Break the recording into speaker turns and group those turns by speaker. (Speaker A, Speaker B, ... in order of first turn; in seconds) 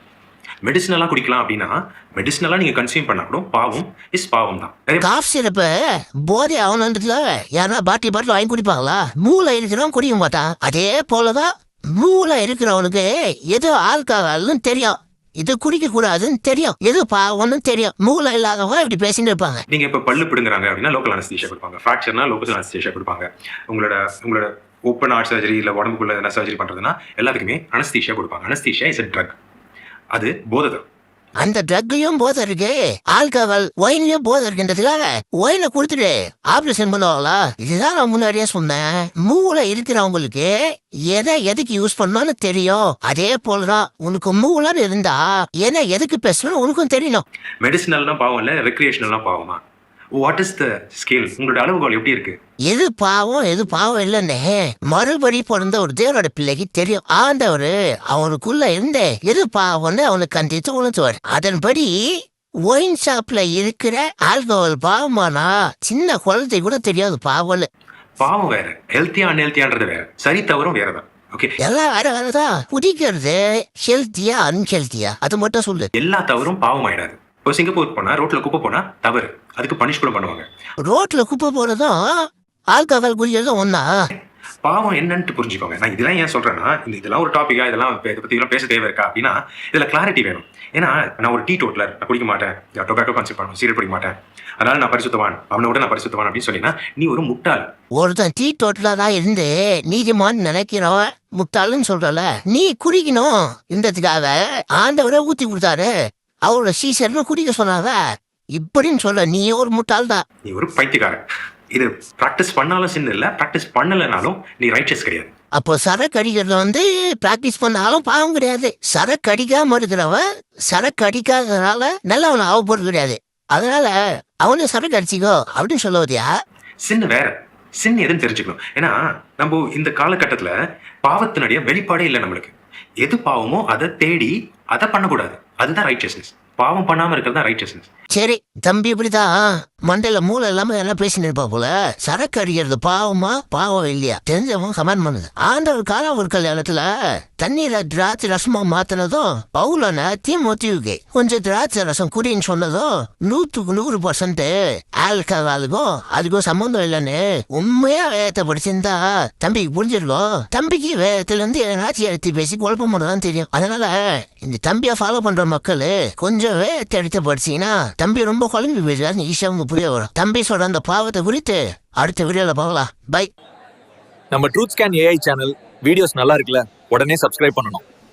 Speaker A: 0.6-5.1, 19.7-29.4, 30.1-30.9, 47.6-49.6, 50.2-52.4, 68.2-71.5, 76.0-80.4, 84.2-97.6, 110.5-115.3, 126.8-137.9
Speaker B: 5.0-19.6, 31.4-40.5, 41.1-47.2, 52.7-62.0, 62.7-67.7, 71.6-75.9, 80.8-82.0, 82.7-83.9, 98.0-105.9, 106.5-108.0, 108.5-110.2, 115.6-126.3, 138.1-146.8, 147.4-173.3
Speaker C: 174.3-177.8